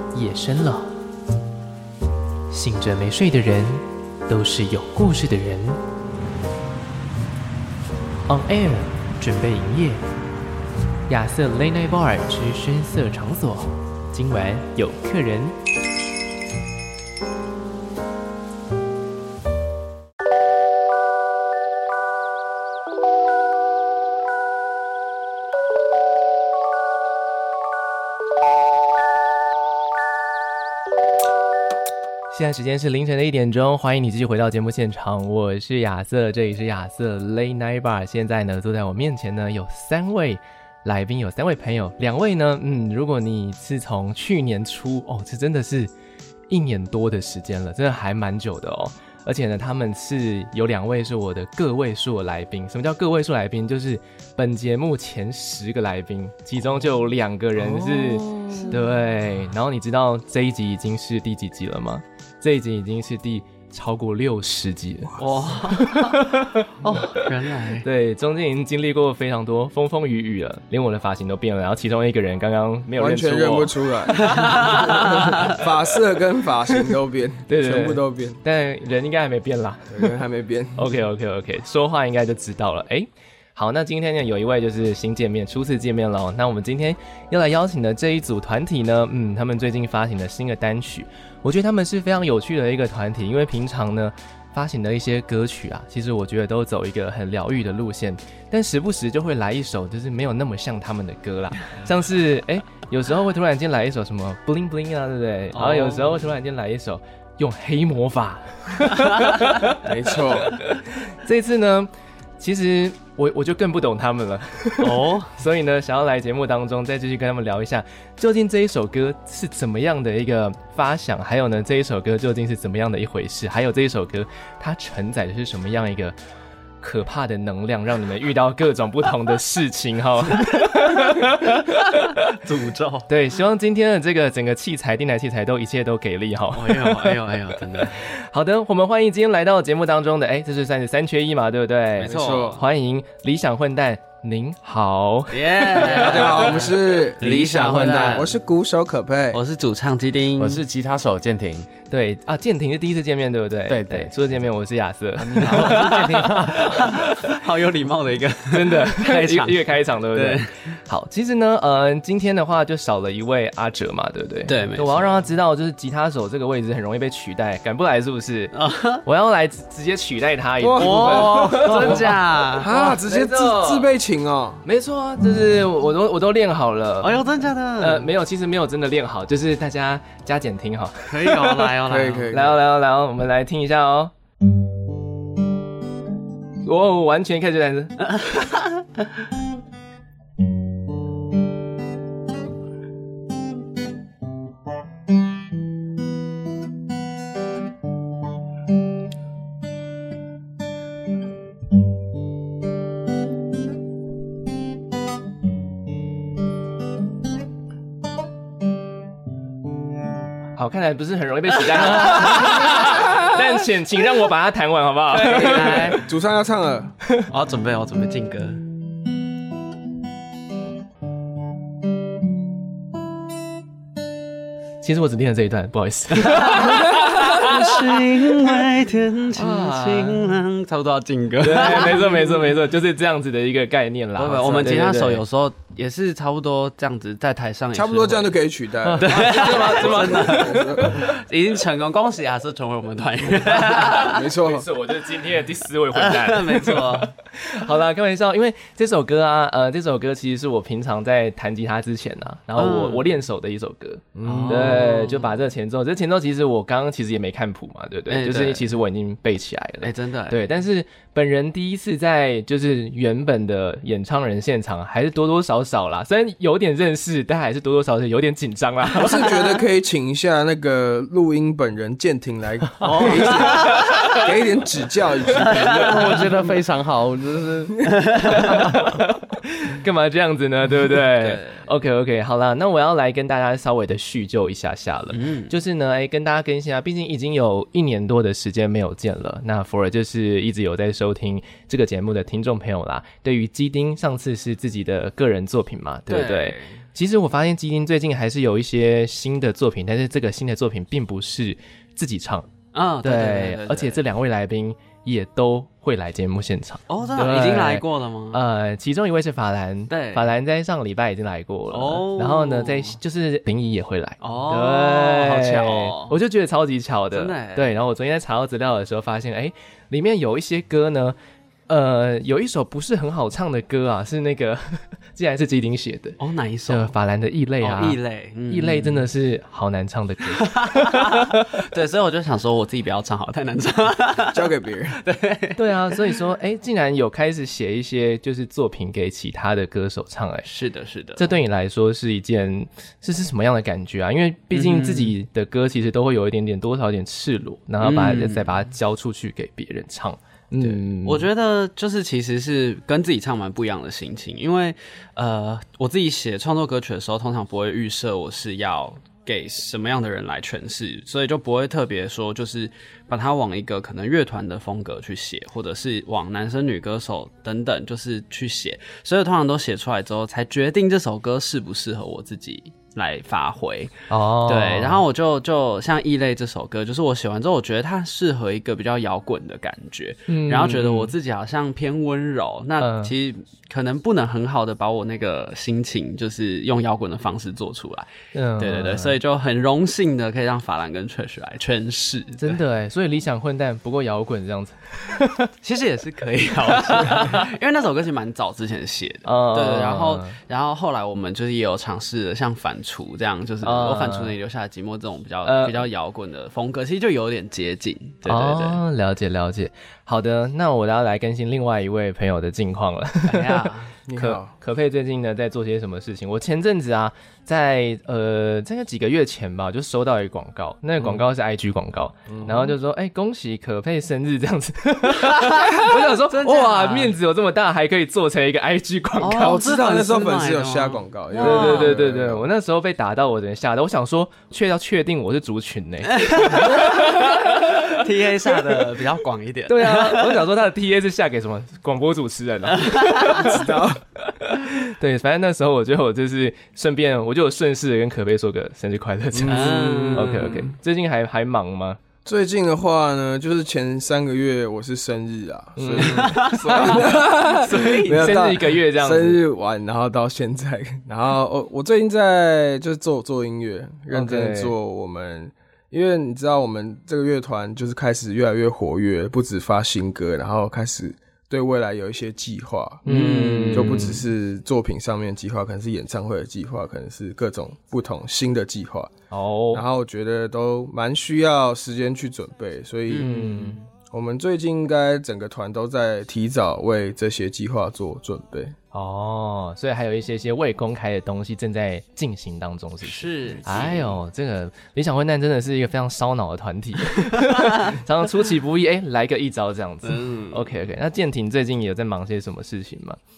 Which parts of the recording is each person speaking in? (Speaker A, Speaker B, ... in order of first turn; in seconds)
Speaker A: 0.1-0.9, 2.5-5.8, 8.3-10.0, 11.1-15.6, 32.3-45.9, 46.5-67.3, 67.8-75.6, 77.5-80.2, 80.8-109.8, 110.4-126.2, 126.8-132.3, 133.1-146.5, 151.9-157.3, 158.5-173.9, 174.6-177.2, 177.8-181.7, 182.3-184.1, 186.6-188.1, 210.6-216.0, 224.8-228.0, 229.3-230.4, 231.4-235.2, 238.8-240.9, 243.5-269.5, 273.4-274.2, 278.2-302.5, 303.0-321.2, 321.7-331.4, 335.6-340.5, 341.2-351.3, 374.1-375.0, 380.3-381.1, 382.8-383.1, 388.3-389.1, 392.4-395.5, 396.7-397.4, 399.2-400.4, 403.6-404.3, 405.4-405.8, 408.2-429.6, 431.4-438.7, 439.7-452.0, 455.8-459.4, 464.1-464.7, 473.0-474.2, 479.3-479.8, 483.2-483.8, 488.9-503.2
Speaker B: 57.6-58.8, 65.2-66.2, 66.8-67.8, 74.2-75.4, 105.5-106.3, 114.8-115.3, 131.7-133.1, 136.5-138.0, 142.0-142.6, 145.3-148.3, 149.3-150.6, 155.4-160.8, 164.5-165.2, 168.5-169.0, 170.8-172.7, 177.0-178.1, 181.1-182.3, 188.3-188.7, 211.8-212.8, 215.1-216.0, 217.3-218.6, 226.1-232.4, 234.2-238.3, 239.0-244.3, 245.9-247.1, 252.6-253.1, 254.2-255.3, 258.1-258.7, 259.8-260.4, 272.8-274.3, 275.4-276.2, 277.9-278.4, 281.2-281.6, 285.1-285.5, 296.1-296.8, 302.7-304.0, 306.9-308.4, 309.9-310.3, 311.7-313.0, 314.2-316.2, 317.1-317.7, 326.2-326.9, 327.6-329.1, 330.3-336.1, 340.4-341.3, 344.5-345.1, 347.8-348.5, 350.6-392.6, 395.6-408.8, 413.2-413.9, 425.2-427.1, 429.2-431.9, 436.1-440.4, 442.7-443.4, 449.4-450.7, 456.0-458.4, 473.1-474.2, 483.1-483.8, 493.0-494.1, 497.5-497.9, 500.0-500.6
Speaker C: 73.0-78.4, 79.9-80.9, 109.8-110.6, 142.0-142.6, 145.8-149.4, 170.6-174.6, 181.8-182.6, 216.0-216.9, 237.7-241.1, 244.0-244.7, 254.2-254.9, 268.9-276.5, 334.3-335.0, 414.1-414.5, 422.3-422.7, 429.4-432.5, 443.2-444.0, 449.3-450.5, 452.2-473.0, 473.7-479.1, 479.7-483.5, 484.1-488.7
Speaker D: 147.2-148.2, 150.4-151.7, 153.7-154.1, 155.2-156.8, 275.6-278.9